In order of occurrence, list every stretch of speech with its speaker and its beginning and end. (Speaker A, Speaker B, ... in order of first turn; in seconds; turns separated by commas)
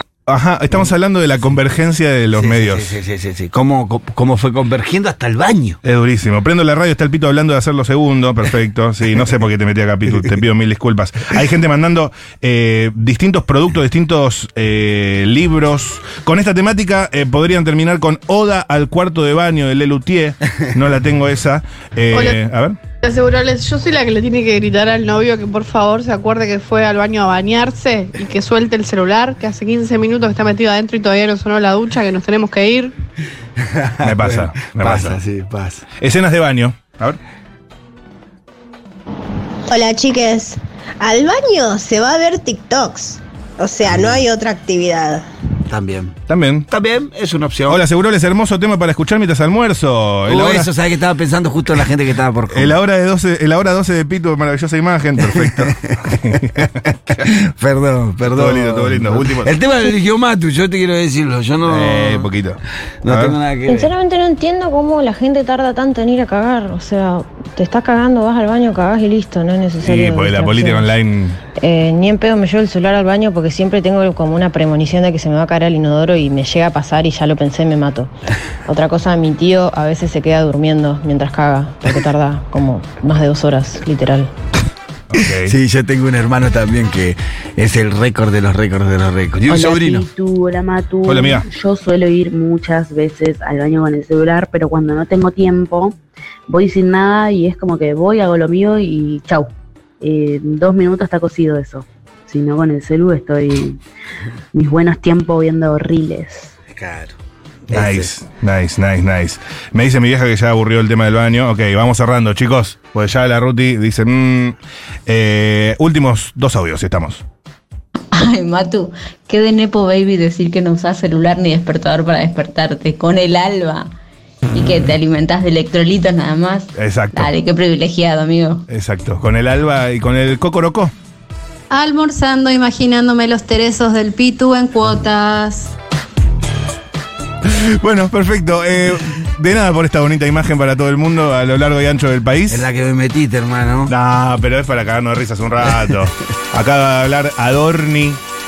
Speaker A: 0.3-3.0, Speaker B: 2.3-5.8, Speaker A: 5.8-22.8, Speaker C: 22.1-22.4, Speaker C: 23.0-32.9, Speaker B: 33.6-35.9, Speaker A: 34.0-35.2, Speaker A: 36.0-37.2, Speaker D: 39.7-45.2, Speaker B: 43.9-44.2, Speaker B: 45.7-46.2, Speaker A: 46.3-46.7, Speaker B: 46.7-47.8, Speaker A: 47.7-50.7, Speaker B: 50.3-52.8, Speaker A: 52.5-57.3, Speaker B: 55.5-62.3, Speaker A: 58.3-59.5, Speaker A: 61.7-63.4, Speaker B: 63.0-63.9, Speaker E: 63.7-70.9, Speaker A: 69.8-71.4, Speaker E: 71.6-78.1, Speaker E: 78.7-84.3, Speaker A: 85.1-85.6, Speaker B: 85.2-90.0, Speaker F: 89.5-96.0, Speaker A: 91.0-91.5, Speaker F: 96.5-103.8, Speaker F: 104.5-106.5, Speaker B: 106.7-107.2, Speaker B: 107.7-108.1, Speaker A: 107.7-117.2, Speaker G: 118.1-123.9, Speaker G: 124.5-128.7, Speaker A: 126.8-127.3, Speaker A: 128.7-130.9, Speaker H: 131.7-135.7, Speaker A: 137.4-142.7, Speaker B: 142.5-143.9, Speaker A: 143.9-148.2